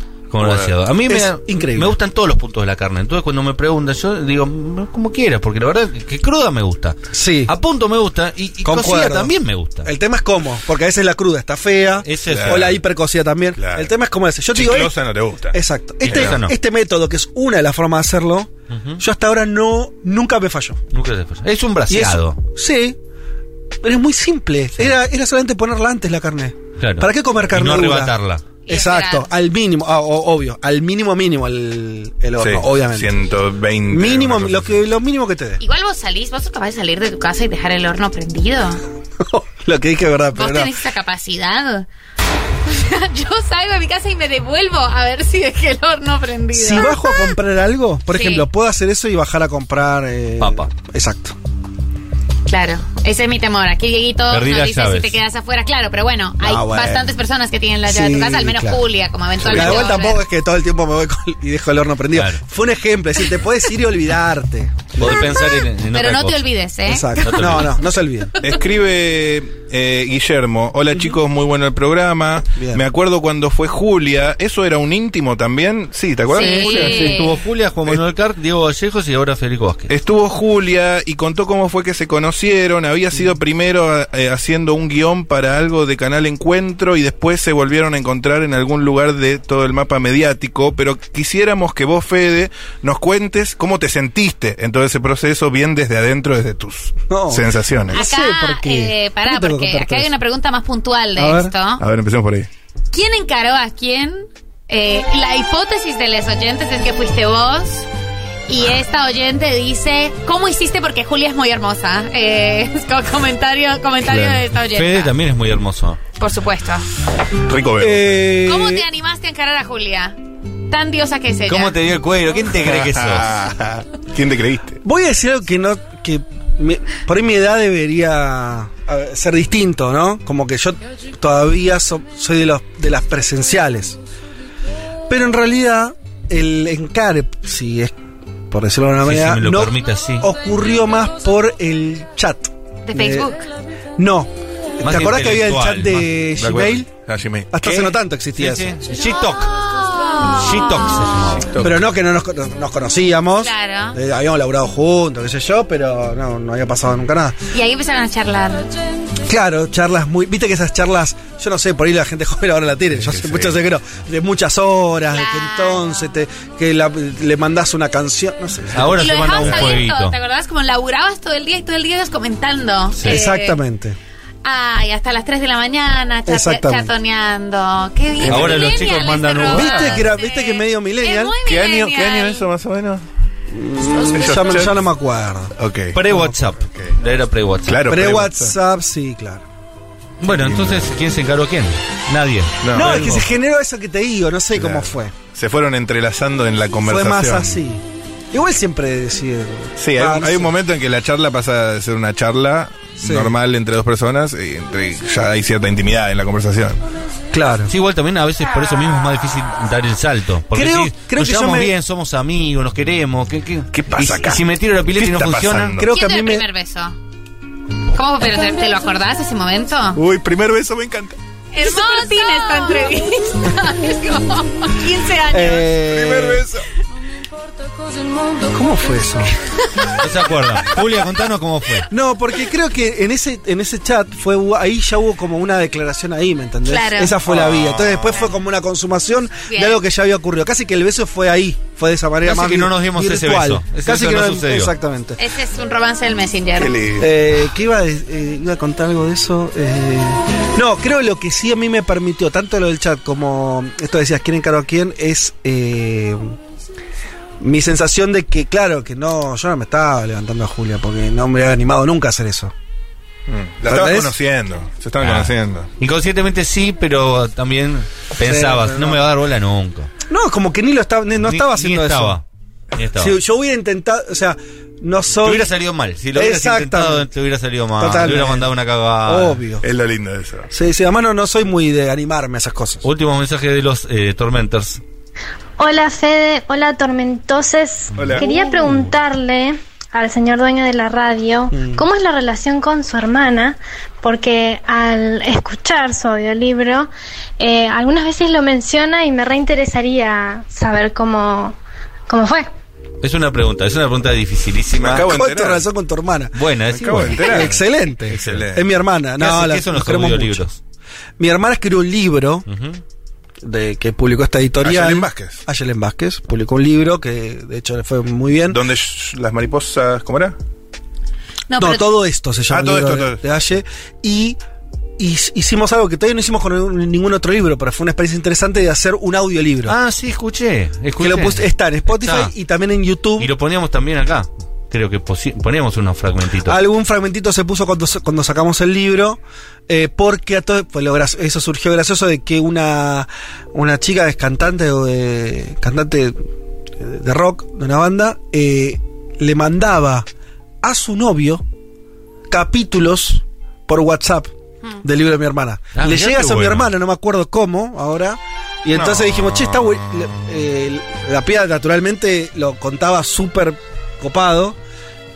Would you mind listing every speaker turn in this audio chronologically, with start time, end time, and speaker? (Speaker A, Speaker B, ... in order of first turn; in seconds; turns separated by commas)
Speaker A: 0.3-9.9, Speaker B: 0.4-0.8, Speaker C: 1.1-1.9, Speaker C: 7.1-7.5, Speaker C: 8.6-9.3, Speaker C: 9.8-14.9, Speaker A: 12.0-12.8, Speaker B: 12.3-12.8, Speaker B: 13.6-13.9, Speaker B: 14.5-16.4, Speaker C: 15.5-20.8, Speaker A: 16.0-16.6, Speaker A: 18.7-19.0, Speaker A: 20.9-22.4, Speaker C: 21.9-23.0, Speaker C: 23.8-28.2, Speaker A: 26.8-28.5, Speaker D: 28.7-29.3, Speaker C: 28.7-33.2, Speaker B: 32.4-34.9, Speaker C: 33.9-35.6, Speaker D: 35.6-38.8, Speaker C: 39.2-40.7, Speaker D: 40.4-41.9, Speaker D: 42.7-47.4, Speaker C: 46.5-51.4, Speaker D: 48.1-48.5, Speaker A: 50.4-50.7, Speaker D: 52.5-60.2, Speaker A: 54.3-55.2, Speaker C: 56.4-57.1, Speaker C: 57.9-58.8, Speaker B: 59.4-60.0, Speaker C: 59.4-65.3, Speaker A: 62.1-62.4, Speaker A: 65.0-66.4, Speaker D: 65.9-67.6, Speaker C: 66.9-68.3, Speaker A: 67.2-67.7, Speaker B: 68.4-77.2, Speaker C: 72.6-72.8, Speaker D: 76.3-77.4, Speaker C: 76.4-77.1, Speaker A: 76.4-79.9, Speaker B: 79.9-98.0, Speaker C: 97.1-100.1, Speaker D: 97.9-101.8, Speaker C: 101.2-101.5, Speaker B: 101.8-102.5, Speaker D: 102.9-107.9, Speaker D: 108.5-115.1, Speaker B: 114.0-114.4, Speaker A: 114.7-116.0, Speaker D: 116.2-116.9, Speaker B: 117.5-118.4, Speaker C: 117.8-118.9, Speaker D: 118.5-120.2, Speaker D: 120.7-121.8, Speaker A: 121.5-123.3, Speaker B: 122.5-124.8, Speaker C: 124.8-134.0, Speaker C: 135.1-137.9, Speaker C: 138.5-143.3, Speaker A: 139.0-140.3, Speaker D: 142.9-143.4, Speaker C: 144.0-146.9, Speaker A: 144.8-146.1, Speaker B: 146.4-147.9, Speaker C: 147.5-148.7, Speaker A: 147.7-149.7, Speaker D: 149.6-151.2, Speaker A: 150.2-151.6, Speaker B: 151.4-151.9, Speaker C: 151.6-157.4, Speaker D: 153.4-154.0, Speaker D: 157.5-158.7, Speaker C: 159.3-169.1, Speaker B: 162.9-163.6, Speaker D: 165.1-166.1, Speaker A: 168.7-170.2, Speaker D: 169.0-173.6, Speaker B: 169.4-169.8, Speaker A: 172.9-173.2, Speaker C: 173.0-174.0, Speaker D: 174.4-182.5, Speaker C: 176.3-176.9, Speaker B: 178.2-178.8, Speaker A: 178.3-180.1, Speaker C: 179.4-181.4, Speaker B: 181.4-183.1, Speaker C: 183.5-185.5, Speaker B: 184.1-184.8, Speaker B: 185.6-186.0, Speaker A: 185.9-188.1, Speaker B: 186.6-187.0, Speaker B: 187.6-188.6, Speaker C: 187.9-189.4, Speaker A: 190.2-193.3, Speaker B: 190.3-190.9, Speaker B: 192.6-193.2, Speaker C: 192.7-195.1, Speaker B: 194.5-197.6, Speaker C: 196.8-200.5, Speaker B: 199.8-206.8, Speaker C: 203.0-203.3, Speaker C: 207.3-207.7, Speaker A: 207.7-215.8, Speaker C: 210.5-211.7, Speaker B: 213.7-215.9, Speaker C: 215.8-216.5, Speaker D: 215.9-216.9, Speaker D: 217.9-220.0, Speaker B: 219.9-221.2, Speaker D: 221.5-225.7, Speaker C: 225.3-226.4, Speaker B: 225.8-226.7, Speaker C: 228.5-229.3, Speaker D: 229.7-229.9, Speaker A: 230.0-231.9, Speaker C: 231.9-245.2, Speaker D: 236.6-237.2, Speaker B: 237.2-238.3, Speaker D: 239.5-239.8, Speaker A: 242.2-244.8, Speaker D: 245.2-246.8, Speaker B: 246.6-247.1, Speaker C: 247.0-256.4, Speaker C: 257.4-262.5, Speaker B: 263.3-265.7, Speaker C: 263.7-264.1, Speaker A: 265.0-269.9, Speaker C: 268.2-269.0, Speaker C: 270.1-272.2, Speaker A: 271.2-272.2, Speaker A: 272.8-273.2, Speaker C: 273.0-275.5, Speaker A: 275.2-279.4, Speaker C: 276.1-277.1, Speaker C: 277.8-279.7, Speaker B: 279.6-280.5, Speaker C: 280.5-282.9, Speaker A: 282.8-284.8, Speaker E: 285.6-301.6, Speaker B: 287.9-288.3, Speaker C: 291.5-291.9, Speaker E: 302.1-302.5, Speaker A: 303.0-305.1, Speaker B: 304.7-305.6, Speaker C: 305.0-306.4, Speaker A: 306.3-307.5, Speaker B: 306.7-308.7, Speaker C: 307.0-310.4, Speaker A: 308.1-308.5, Speaker A: 309.2-310.6, Speaker C: 311.2-312.5, Speaker A: 312.5-312.8, Speaker C: 313.4-318.6, Speaker B: 314.6-315.4, Speaker B: 318.5-320.4, Speaker D: 321.5-321.9, Speaker C: 321.6-324.4, Speaker B: 322.5-323.2, Speaker C: 325.0-329.8, Speaker A: 329.7-332.3, Speaker C: 331.0-333.3, Speaker A: 333.2-336.6, Speaker C: 336.4-346.2, Speaker C: 346.8-350.1, Speaker C: 350.6-351.4, Speaker C: 352.3-354.3, Speaker C: 354.8-364.6, Speaker A: 355.8-356.7, Speaker B: 358.7-360.2